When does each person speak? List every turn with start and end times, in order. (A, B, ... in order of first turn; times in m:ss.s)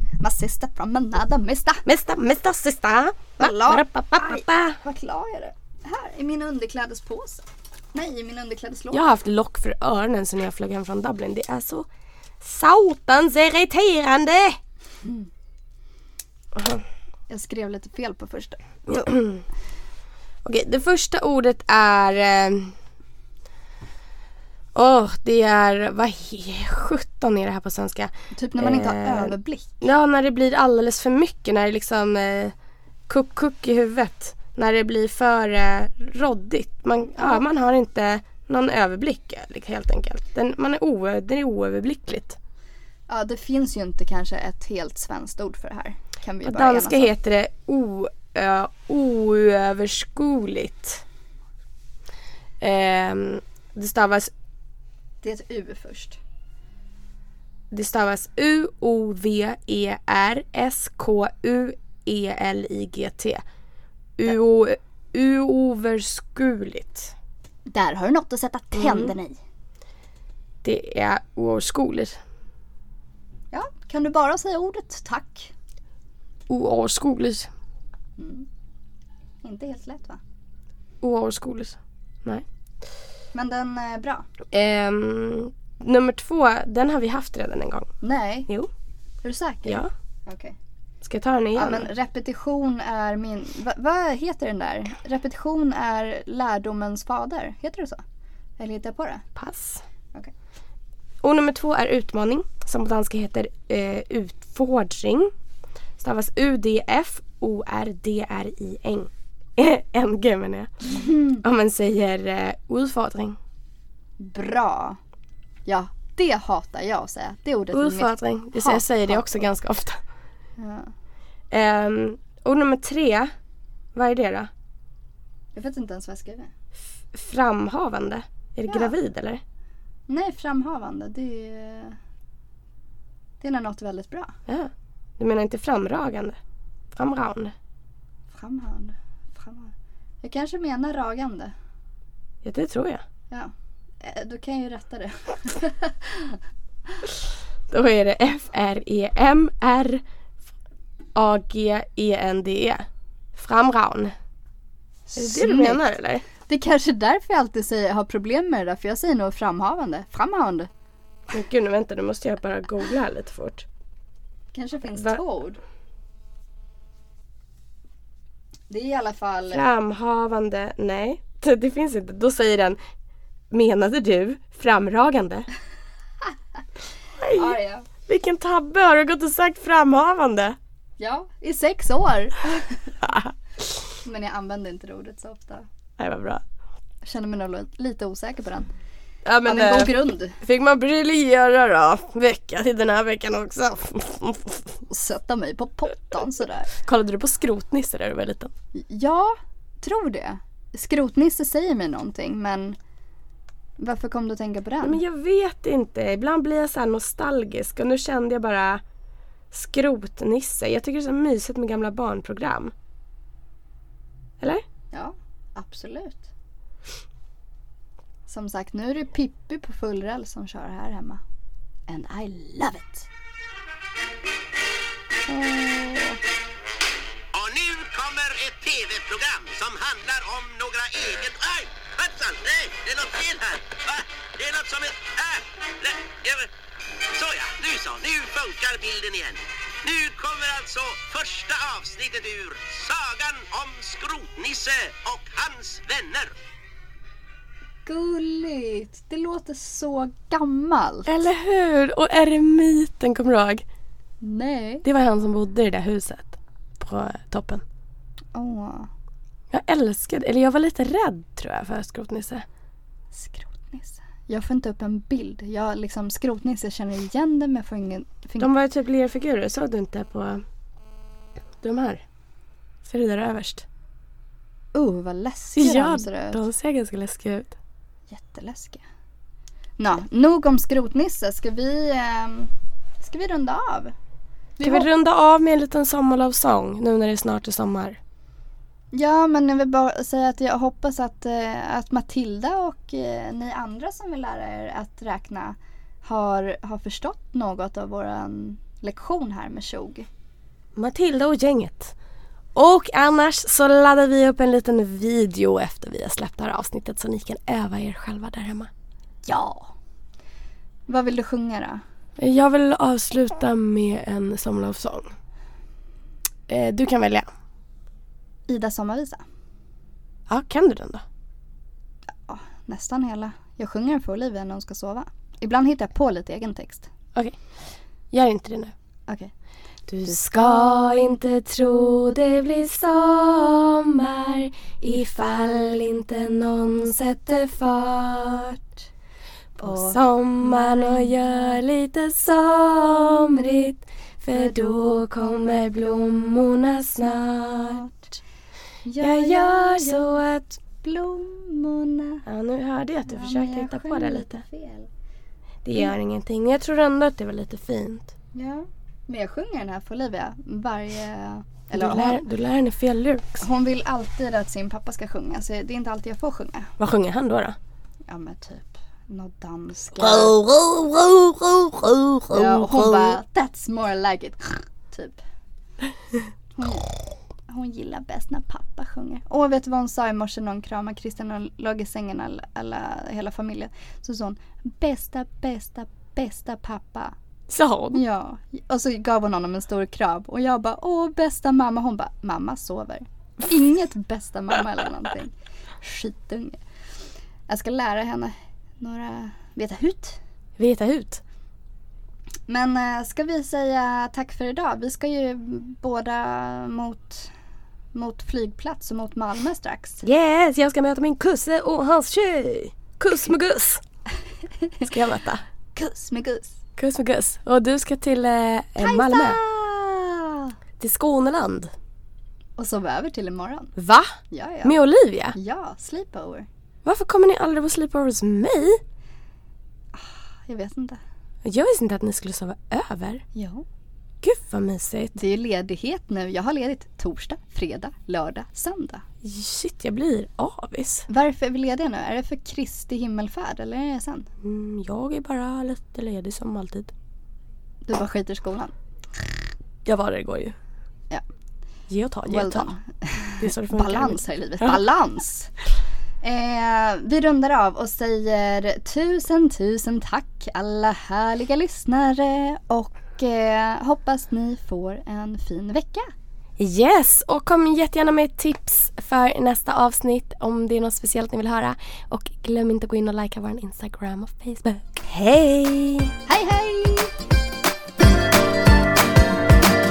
0:00.2-0:01.8 A
0:01.9-0:04.8 B
0:03.4-0:09.1 A
0:08.9-0:11.9 B
0:12.4-0:14.6 B
0:16.6-0:16.8 B
0:17.3-0:19.2 A
0:18.9-0:19.4 B
0:20.4-0:22.8 B
0:24.7-0:32.5 B
0:28.3-0:29.8 A
0:33.1-0:42.4 B
0:37.2-0:37.4 A
0:43.1-0:47.1 A
0:46.4-0:51.0 B
0:52.6-0:54.3 B
0:55.2-0:56.2 A
0:57.7-1:03.4 B
1:04.2-1:07.1 B
1:07.7-1:09.4 A
1:08.8-1:09.1 B
1:10.6-1:12.2 B
1:13.5-1:15.5 A
1:16.5-1:17.5 B
1:18.2-1:18.5 A
1:19.4-1:20.2 A
1:21.0-1:22.4 B
1:23.3-1:24.3 A
1:24.5-1:27.9 B
1:28.0-1:28.5 A
1:29.2-1:30.6 A
1:31.0-1:31.9 B
1:31.6-1:38.0 A
1:38.6-1:39.2 A
1:39.4-1:39.8 B
1:41.2-1:45.3 B
1:46.0-1:53.4 B
1:50.9-1:51.4 A
1:54.2-1:55.0 A
1:55.7-1:59.5 A
1:57.7-2:00.0 B
2:00.6-2:00.9 A
2:01.5-2:03.3 B
2:04.0-2:04.5 B
2:05.6-2:06.5 A
2:07.1-2:09.4 B
2:08.7-2:09.0 A
2:10.1-2:12.0 A
2:13.4-2:14.4 A
2:14.5-2:16.4 B
2:16.9-2:17.5 B
2:18.3-2:21.5 A
2:22.4-2:23.0 B
2:23.3-2:26.4 A
2:27.7-2:30.0 B
2:31.2-2:34.1 B
2:35.1-2:35.8 A
2:35.2-2:36.2 B
2:36.5-2:40.7 A
2:41.3-2:43.7 B
2:44.5-2:45.6 A
2:48.7-2:49.6 A
2:49.5-2:52.8 B
2:53.5-2:55.5 B
2:57.2-3:00.6 B
2:57.3-2:57.9 A
3:01.0-3:02.9 A
3:03.0-3:03.3 B
3:04.0-3:05.7 A
3:06.0-3:06.4 B
3:07.0-3:08.7 A
3:09.2-3:14.8 B
3:09.4-3:10.4 A
3:14.9-3:16.7 A
3:16.8-3:18.5 B
3:18.7-3:22.8 A
3:23.8-3:25.0 A
3:24.8-3:28.8 B
3:29.5-3:32.7 B
3:34.9-3:36.3 A
3:38.3-3:41.2 A
3:41.9-3:43.1 A
3:45.3-3:46.2 A
3:47.3-3:56.5 C
3:57.1-4:06.3 C
4:07.8-4:11.2 A
4:11.1-4:13.6 B
4:14.2-4:14.8 A
4:14.8-4:17.6 B
4:18.3-4:18.9 A
4:19.5-4:22.4 B
4:23.1-4:28.5 A
4:28.4-4:30.4 B
4:31.6-4:32.0 B
4:32.8-4:33.7 B
4:34.7-4:36.5 A
4:35.6-4:37.6 B
4:38.1-4:38.8 A
4:39.8-4:43.9 A
4:44.6-4:44.9 A
4:44.6-4:48.0 B
4:48.9-5:00.1 A
5:00.8-5:02.0 B
5:02.6-5:08.7 B
5:09.2-5:09.7 A
5:10.9-5:11.8 A
5:12.2-5:15.1 B
5:16.5-5:17.3 B
5:18.5-5:19.2 A
5:20.3-5:21.0 B
5:22.2-5:26.9 A
5:27.1-5:27.4 B
5:28.1-5:28.7 B
5:29.9-5:38.6 B
5:39.6-5:41.1 A
5:39.6-5:47.9 B
5:48.8-5:50.2 A
5:49.0-5:50.6 B
5:50.8-5:52.2 A
5:52.3-5:54.4 B
5:53.1-5:54.9 A
5:55.6-5:58.1 B
5:58.3-6:02.2 A
6:01.7-6:03.4 B
6:03.4-6:06.7 A
6:06.8-6:07.6 B
6:08.1-6:10.4 A
6:09.9-6:13.2 B
6:12.3-6:15.2 A
6:16.6-6:16.9 A
6:17.5-6:27.2 A
6:27.5-6:28.0 B
6:27.9-6:36.6 A
6:37.5-6:40.2 A
6:40.6-6:41.2 B
6:42.5-6:47.3 A
6:47.9-6:50.0 A
6:50.0-6:53.8 B
6:54.8-6:55.4 B
6:55.8-6:56.6 A
6:56.8-6:59.4 B
6:58.8-7:00.5 A
7:00.8-7:01.7 B
7:02.6-7:03.8 A
7:03.8-7:04.1 B
7:04.3-7:04.7 A
7:04.6-7:05.4 B
7:05.4-7:06.5 A
7:06.8-7:08.8 B
7:09.9-7:11.0 A
7:11.4-7:13.2 B
7:13.3-7:13.6 A
7:14.2-7:15.2 B
7:15.2-7:19.0 A
7:19.2-7:21.1 B
7:21.1-7:24.3 A
7:24.4-7:26.9 B
7:27.9-7:28.7 A
7:29.8-7:30.6 B
7:31.9-7:32.7 B
7:32.3-7:35.5 A
7:33.4-7:34.8 B
7:36.2-7:46.1 A
7:46.6-7:56.1 B
7:56.3-7:57.1 A